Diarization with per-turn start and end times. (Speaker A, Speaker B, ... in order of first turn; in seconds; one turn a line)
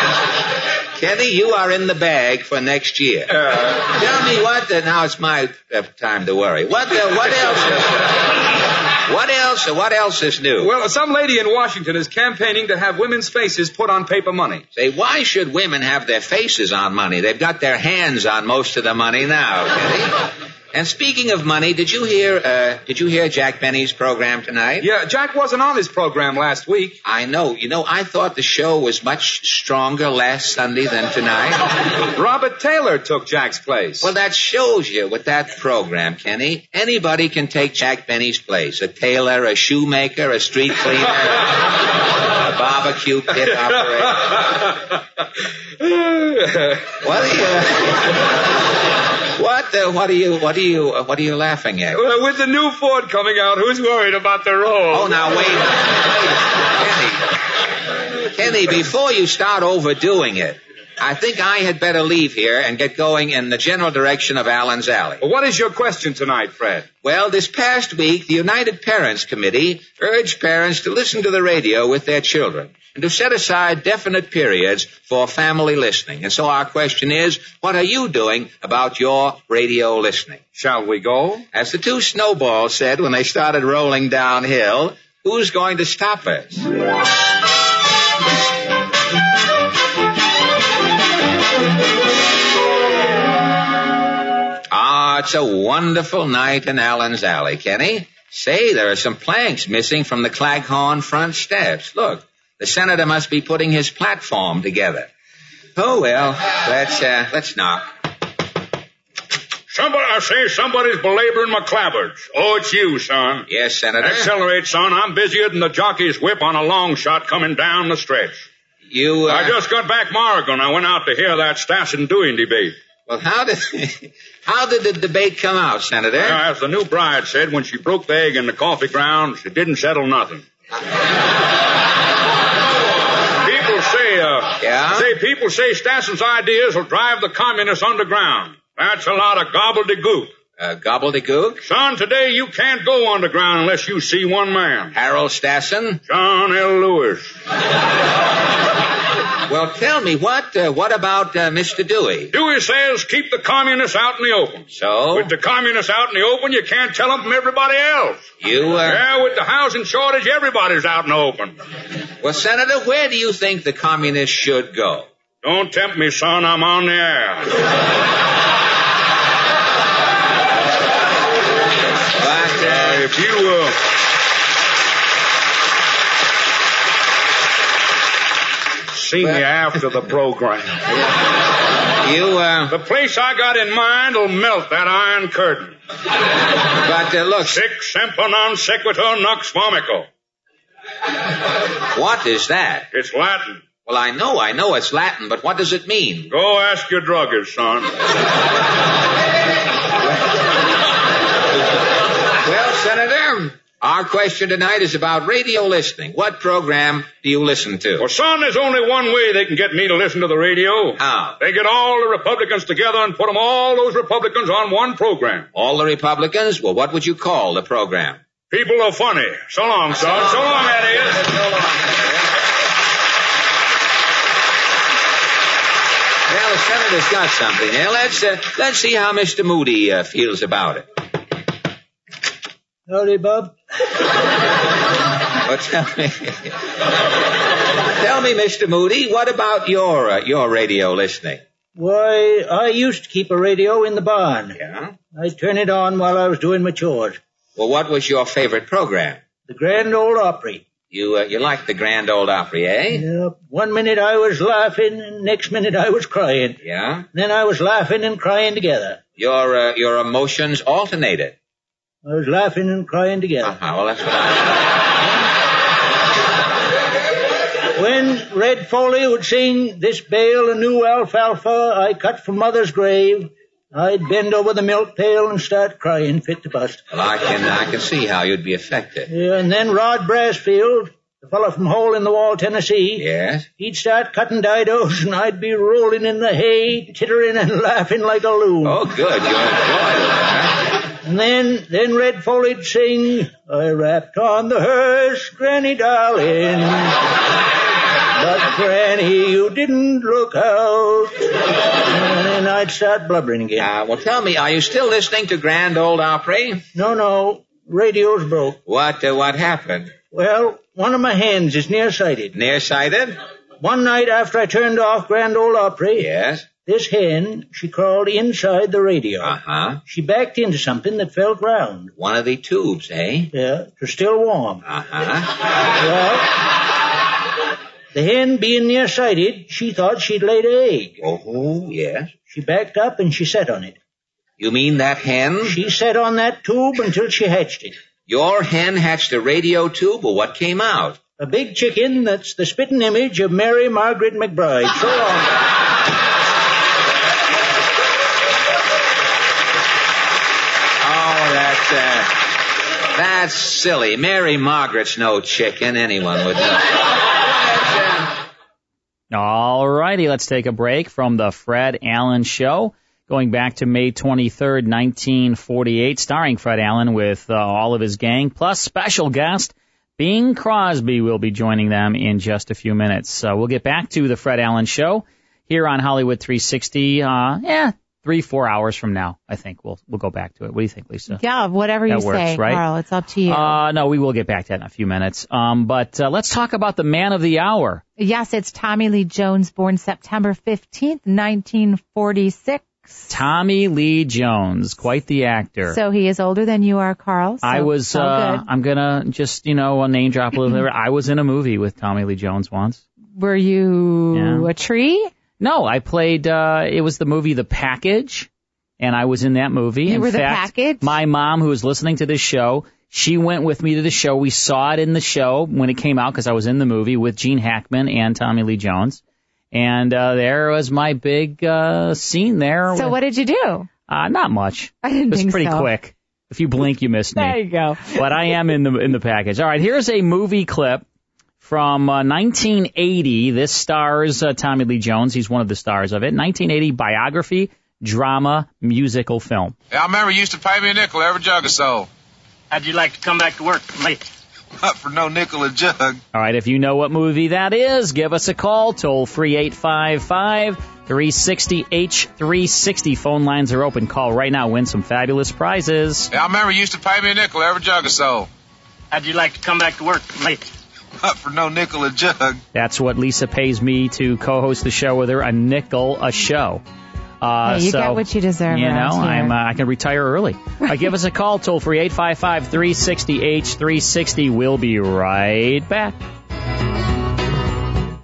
Speaker A: 1.0-8.2
Speaker A: 9.1-10.7
Speaker B: 10.6-14.6
Speaker A: 14.7-20.1
Speaker A: 20.7-24.9
Speaker B: 24.8-27.0
Speaker A: 27.0-31.7
Speaker B: 32.1-34.1
Speaker A: 34.0-41.6
Speaker A: 42.4-44.5
Speaker B: 45.8-46.9
Speaker A: 47.0-48.1
Speaker A: 49.4-52.0
Speaker B: 51.9-55.2
Speaker A: 54.9-56.1
Speaker A: 56.7-57.2
Speaker A: 58.3-65.2
Speaker B: 65.2-66.9
Speaker A: 67.0-80.4
Speaker B: 80.6-81.4
Speaker A: 81.5-86.7
Speaker A: 94.7-105.1
Speaker A: 105.8-107.9
Speaker C: 109.7-113.5
Speaker A: 113.5-114.3
Speaker C: 114.0-118.5
Speaker A: 118.9-119.6
Speaker C: 119.3-122.8
Speaker A: 123.1-126.4
Speaker C: 126.2-130.4
Speaker C: 133.4-140.3
Speaker A: 134.6-135.1
Speaker A: 140.6-141.6
Speaker C: 141.6-144.9
Speaker A: 144.9-146.0
Speaker C: 146.1-147.3
Speaker A: 149.5-152.3
Speaker C: 152.3-158.3
Speaker A: 154.7-155.3
Speaker A: 158.4-159.0
Speaker C: 158.8-161.6
Speaker A: 162.2-165.1
Speaker C: 165.4-167.5
Speaker A: 172.2-173.1
Speaker C: 172.6-173.8
Speaker C: 178.9-180.7
Speaker A: 182.0-182.7
Speaker C: 182.7-185.8
Speaker A: 186.8-187.6
Speaker C: 187.5-190.1
Speaker A: 191.9-192.9
Speaker C: 192.9-193.7
Speaker A: 193.8-196.3
Speaker C: 196.3-197.9
Speaker A: 202.4-208.1
Speaker C: 208.0-215.5
Speaker A: 211.0-211.4
Speaker A: 215.5-218.2
Speaker C: 218.5-221.3
Speaker A: 220.0-221.7
Speaker A: 226.3-230.9
Speaker D: 232.9-233.6
Speaker A: 235.5-236.6
Speaker A: 237.9-241.4
Speaker D: 241.8-244.6
Speaker A: 244.6-244.9
Speaker D: 245.1-247.2
Speaker A: 247.6-249.2
Speaker D: 249.5-250.6
Speaker A: 250.9-253.0
Speaker D: 252.9-256.6
Speaker A: 256.6-257.1
Speaker D: 257.1-259.0
Speaker A: 259.2-261.4
Speaker D: 262.1-263.6
Speaker A: 263.4-264.6
Speaker D: 267.8-276.8
Speaker A: 276.9-279.1
Speaker D: 279.1-283.1
Speaker A: 283.0-283.5
Speaker D: 283.6-288.8
Speaker A: 288.6-290.6
Speaker D: 291.0-297.0
Speaker D: 298.2-301.2
Speaker D: 301.8-303.7
Speaker A: 303.6-306.6
Speaker D: 306.8-308.6
Speaker A: 308.7-309.9
Speaker D: 310.1-312.3
Speaker A: 312.3-313.2
Speaker D: 313.6-316.1
Speaker A: 316.0-316.4
Speaker D: 316.6-321.9
Speaker A: 319.2-319.8
Speaker A: 322.0-323.3
Speaker D: 323.3-324.6
Speaker A: 324.6-325.3
Speaker D: 325.8-326.3
Speaker D: 327.9-330.9
Speaker A: 331.0-332.1
Speaker D: 332.3-333.8
Speaker A: 334.4-335.6
Speaker D: 335.4-337.8
Speaker A: 338.1-341.0
Speaker D: 341.2-345.4
Speaker A: 350.8-352.3
Speaker A: 352.9-356.8
Speaker E: 359.1-381.2
Speaker F: 381.1-383.6
Speaker E: 381.9-382.6
Speaker E: 383.3-387.8
Speaker F: 388.0-393.1
Speaker E: 393.1-395.8
Speaker F: 395.7-398.4
Speaker E: 397.4-402.8
Speaker F: 403.1-405.1
Speaker E: 404.1-404.5
Speaker E: 405.4-408.3
Speaker E: 408.8-419.0
Speaker F: 409.9-410.9
Speaker E: 419.5-423.0
Speaker F: 422.7-423.7
Speaker E: 423.9-430.8
Speaker F: 424.8-425.7
Speaker F: 427.2-428.3
Speaker E: 431.4-439.6
Speaker G: 439.7-441.9
Speaker H: 442.5-444.0
Speaker G: 444.6-446.0
Speaker E: 446.1-456.1
Speaker G: 456.1-458.3
Speaker H: 458.9-460.4
Speaker G: 461.0-462.4
Speaker E: 462.5-466.6
Speaker E: 467.2-476.0
Speaker F: 467.5-469.4